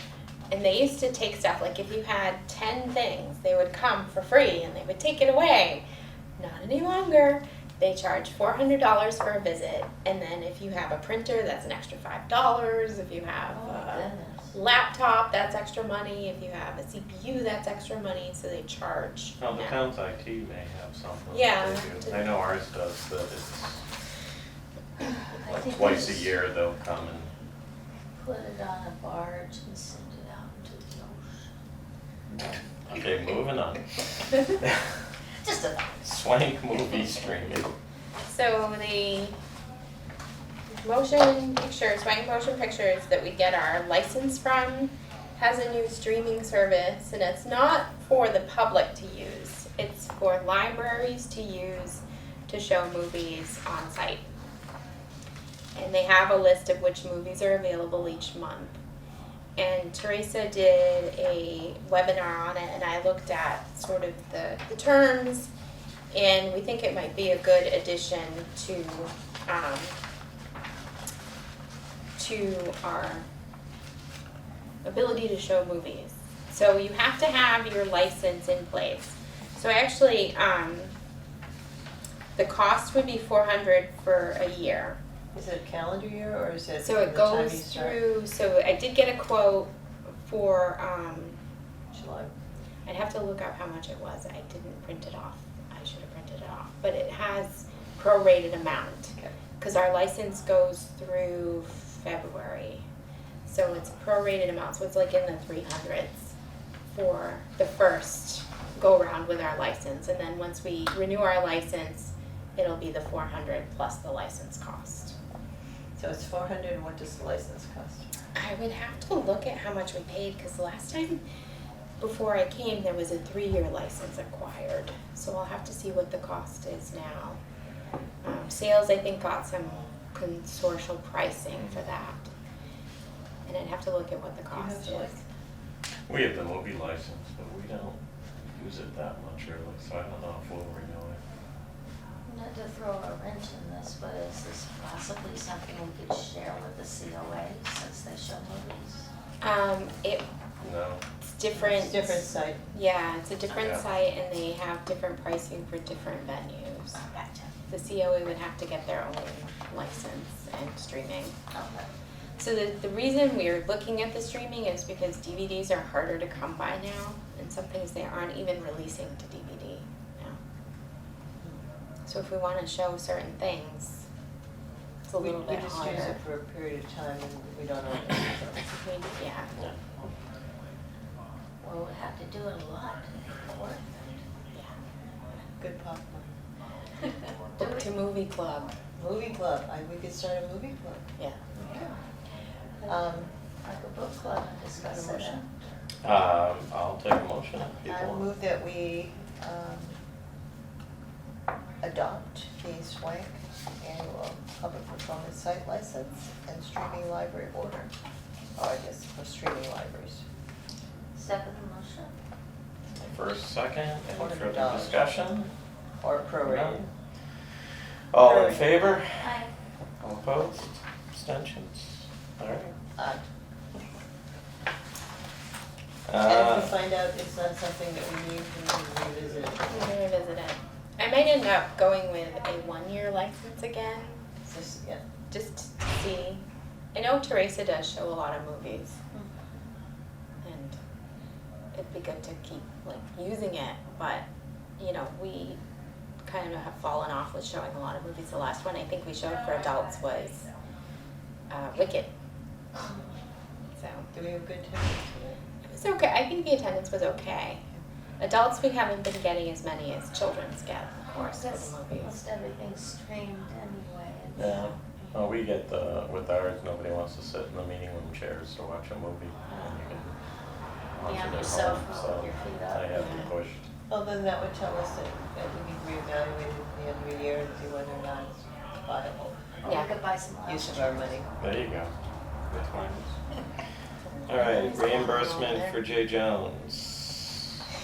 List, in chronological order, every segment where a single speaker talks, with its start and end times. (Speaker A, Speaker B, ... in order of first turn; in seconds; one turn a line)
Speaker A: 0.5-5.8
Speaker A: 6.4-19.8
Speaker B: 13.5-14.6
Speaker C: 19.4-23.8
Speaker A: 21.3-22.3
Speaker B: 25.0-26.3
Speaker C: 25.5-27.3
Speaker B: 28.1-31.5
Speaker C: 32.4-33.8
Speaker B: 35.4-35.9
Speaker C: 36.0-37.7
Speaker A: 38.2-39.4
Speaker A: 40.7-54.2
Speaker A: 55.7-58.8
Speaker A: 59.6-65.5
Speaker A: 66.1-70.0
Speaker A: 72.2-73.3
Speaker A: 74.8-80.9
Speaker A: 82.3-85.0
Speaker D: 85.3-88.0
Speaker A: 86.8-91.4
Speaker D: 91.9-92.3
Speaker A: 92.8-102.8
Speaker A: 103.5-106.3
Speaker A: 106.9-115.1
Speaker D: 116.0-118.1
Speaker A: 118.3-121.2
Speaker A: 122.0-127.4
Speaker A: 128.2-132.3
Speaker C: 131.5-131.8
Speaker A: 133.4-135.2
Speaker D: 134.5-135.2
Speaker C: 136.1-138.0
Speaker C: 138.5-141.2
Speaker B: 142.2-149.1
Speaker A: 149.4-150.2
Speaker C: 150.6-151.0
Speaker A: 151.2-157.0
Speaker D: 151.5-152.6
Speaker C: 153.5-153.8
Speaker B: 156.9-157.5
Speaker A: 157.7-161.3
Speaker B: 161.5-161.9
Speaker A: 162.4-170.4
Speaker A: 172.1-174.1
Speaker A: 175.1-176.2
Speaker D: 175.2-178.7
Speaker A: 178.8-179.5
Speaker B: 181.6-184.2
Speaker D: 185.6-186.3
Speaker B: 187.6-187.9
Speaker A: 187.6-188.7
Speaker D: 188.9-191.1
Speaker D: 191.6-191.9
Speaker D: 192.8-193.3
Speaker B: 193.6-195.8
Speaker D: 194.8-195.4
Speaker C: 196.0-198.2
Speaker D: 197.8-200.0
Speaker D: 201.8-207.9
Speaker D: 208.6-210.2
Speaker B: 211.1-212.1
Speaker C: 212.9-215.5
Speaker D: 214.1-215.1
Speaker D: 216.0-216.8
Speaker C: 216.4-216.9
Speaker C: 218.1-219.2
Speaker A: 218.2-218.7
Speaker B: 219.2-219.5
Speaker C: 220.0-222.7
Speaker D: 223.0-223.2
Speaker C: 226.1-226.8
Speaker D: 226.2-229.9
Speaker A: 229.7-234.2
Speaker D: 234.5-235.0
Speaker A: 235.3-236.4
Speaker A: 236.9-239.0
Speaker A: 240.4-240.8
Speaker A: 241.7-244.2
Speaker A: 244.8-245.6
Speaker A: 246.2-250.4
Speaker A: 251.5-252.1
Speaker B: 252.8-253.1
Speaker A: 253.8-254.1
Speaker D: 254.1-255.4
Speaker A: 255.7-257.6
Speaker A: 258.2-262.2
Speaker B: 261.1-265.2
Speaker C: 264.4-270.1
Speaker C: 270.9-273.6
Speaker B: 271.0-273.1
Speaker A: 272.9-273.3
Speaker D: 273.9-279.6
Speaker B: 279.6-281.2
Speaker D: 280.4-281.3
Speaker C: 281.4-281.9
Speaker C: 282.5-283.1
Speaker A: 284.1-285.8
Speaker C: 284.3-287.5